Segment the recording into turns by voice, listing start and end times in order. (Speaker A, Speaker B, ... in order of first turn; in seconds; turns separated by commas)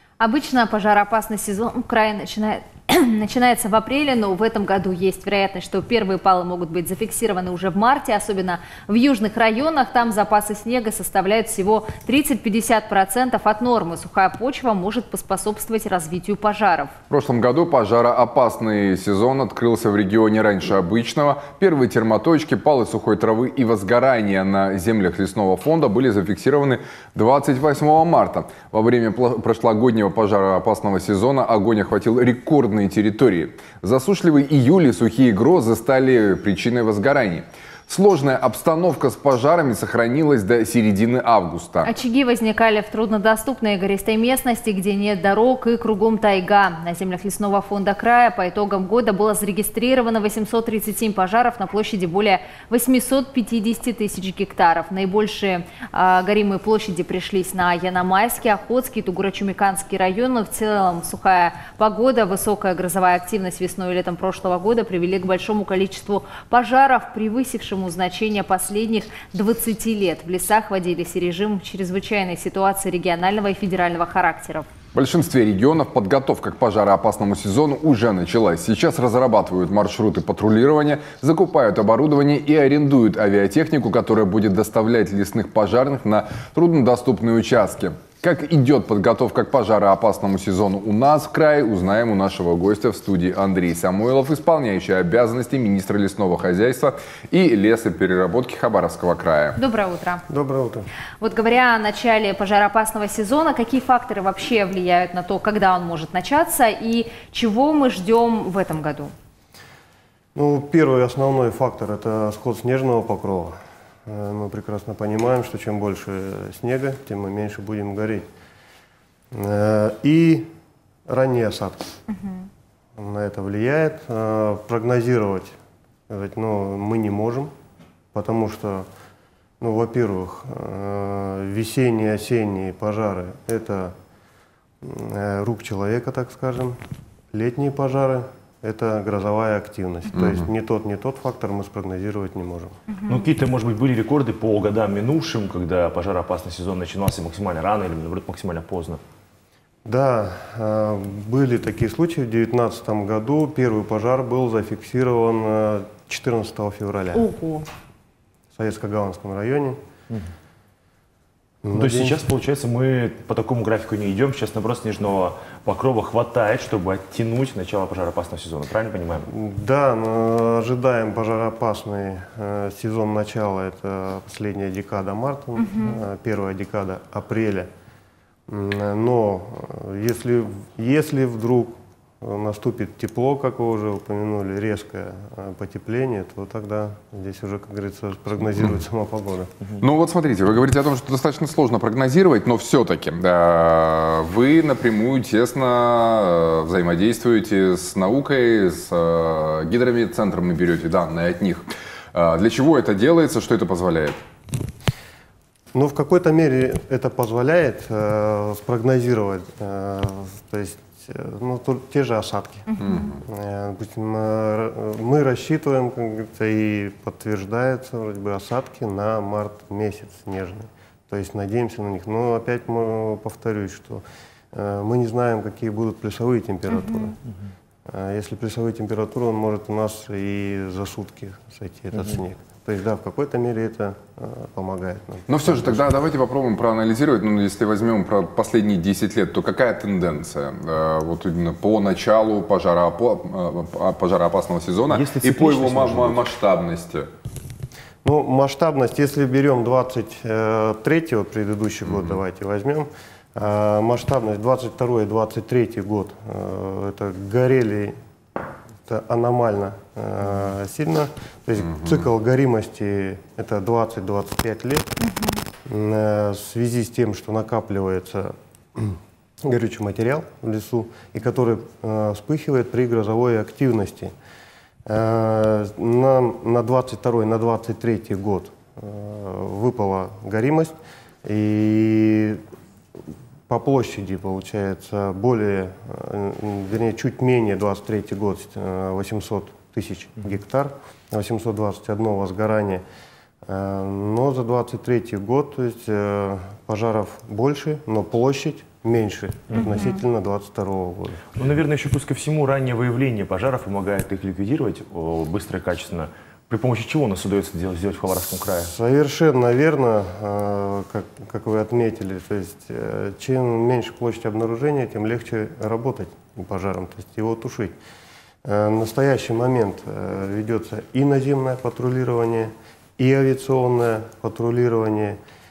Speaker A: 0.2-16.9, Speaker B: 17.1-41.9, Speaker A: 41.8-74.7, Speaker B: 74.9-99.6, Speaker A: 99.6-100.2, Speaker C: 100.3-100.9, Speaker A: 101.2-109.1, Speaker C: 110.3-113.5, Speaker C: 114.0-118.2, Speaker C: 119.3-120.5, Speaker C: 121.1-122.0, Speaker C: 123.0-125.5, Speaker C: 126.1-127.5, Speaker C: 128.1-128.9, Speaker C: 129.6-133.9, Speaker C: 134.8-136.8, Speaker C: 137.3-142.8, Speaker D: 143.1-149.0, Speaker C: 149.8-157.2, Speaker A: 157.1-157.7, Speaker C: 158.5-159.8, Speaker C: 161.6-162.2, Speaker D: 161.7-169.3, Speaker C: 169.2-177.7, Speaker A: 175.6-176.0, Speaker C: 178.5-189.5, Speaker B: 189.8-204.2, Speaker C: 205.7-227.2, Speaker A: 212.7-213.1, Speaker B: 212.8-213.2, Speaker A: 226.7-227.1, Speaker C: 227.8-235.7, Speaker B: 235.3-247.1, Speaker D: 244.9-246.2, Speaker C: 248.0-257.9, Speaker C: 258.8-264.9, Speaker A: 265.0-265.4, Speaker C: 265.6-274.1, Speaker C: 274.9-282.4, Speaker C: 283.5-292.8, Speaker C: 293.4-301.2, Speaker A: 299.6-300.0, Speaker D: 301.3-308.7, Speaker C: 308.6-317.7, Speaker C: 318.4-325.2